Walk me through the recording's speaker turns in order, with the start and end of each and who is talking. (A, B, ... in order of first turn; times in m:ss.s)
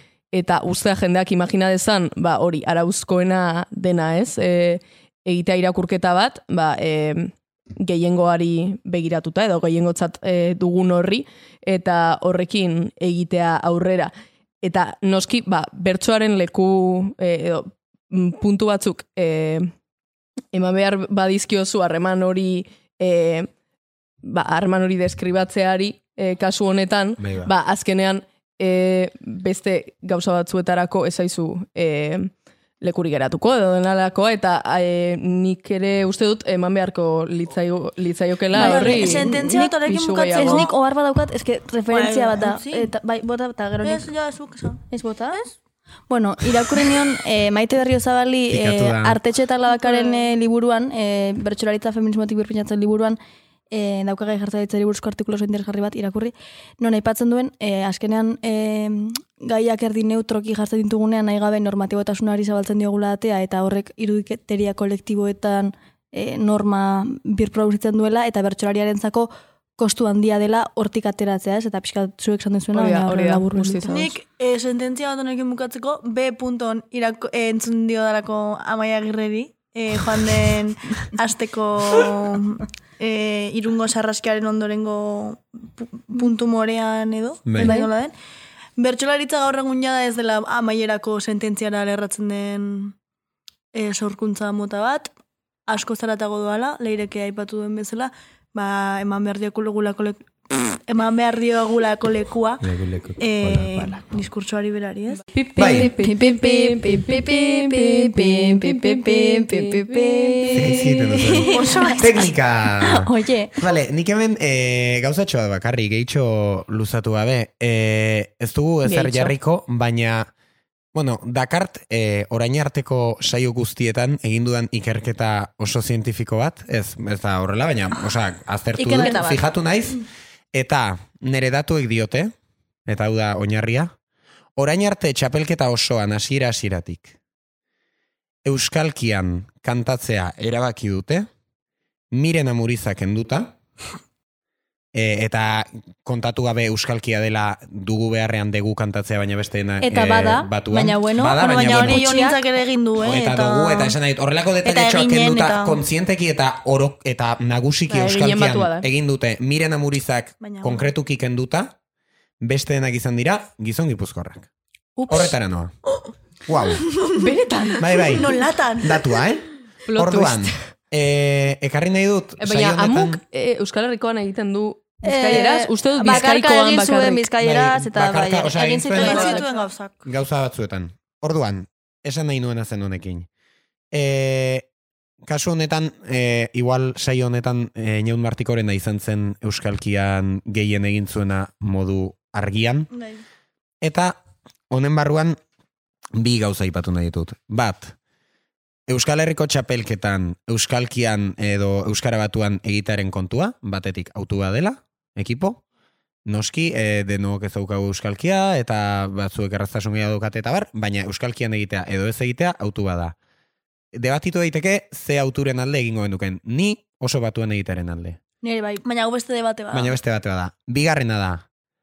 0:00.3-0:14.1 A
0:14.6-0:19.7 A
0:20.5-0:23.5 A
0:24.2-0:40.7 A
0:27.2-0:27.5 B
0:38.6-0:44.1 C
0:38.6-0:40.7 D
0:41.9-0:42.9 D
0:43.8-0:44.8 D
0:44.9-0:45.4 C
0:46.1-0:53.2 C
0:48.5-0:49.2 B
0:49.7-0:50.3 D
0:53.7-1:14.1 C
1:12.7-1:14.1 A
1:13.9-1:28.1 D
1:27.5-1:27.8 B
1:27.6-1:27.9 C
1:28.8-1:33.0 D
1:33.7-1:35.1 D
1:35.7-1:42.6 D
1:42.6-1:44.0 B
1:43.2-1:45.2 D
1:45.3-1:51.2 A
1:45.6-1:45.9 B
1:45.6-1:52.2 C
1:50.5-2:00.3 B
1:51.5-1:52.2 D
1:52.8-1:53.5 C
1:58.8-1:59.4 A
2:00.9-2:12.3 B
2:08.8-2:09.5 C
2:12.9-2:13.9 B
2:14.6-2:17.2 B
2:18.4-2:21.3 B
2:22.1-2:23.6 B
2:24.9-2:32.1 B
2:29.8-2:32.4 C
2:31.3-2:34.0 D
2:33.0-2:41.8 B
2:34.6-2:35.8 D
2:37.9-2:38.9 A
2:40.4-2:40.9 D
2:42.4-2:44.5 B
2:45.1-2:45.7 B
2:46.5-2:46.8 B
2:47.2-2:48.1 A
2:47.8-2:53.2 B
2:48.2-2:49.1 D
2:49.9-2:50.5 A
2:52.4-2:57.3 A
2:55.0-2:59.6 C
2:57.4-2:59.4 B
2:58.9-3:00.0 D
2:59.0-2:59.4 A
3:00.0-3:03.3 B
3:03.9-3:04.6 B
3:05.2-3:12.9 B
3:12.9-3:13.2 D
3:13.8-3:14.2 B
3:14.7-3:15.4 B
3:16.2-3:17.9 B
3:18.9-3:25.6 B
3:26.3-3:33.2 B
3:33.9-3:38.2 B
3:38.4-3:38.8 C
3:38.8-3:40.0 D
3:39.7-3:41.4 B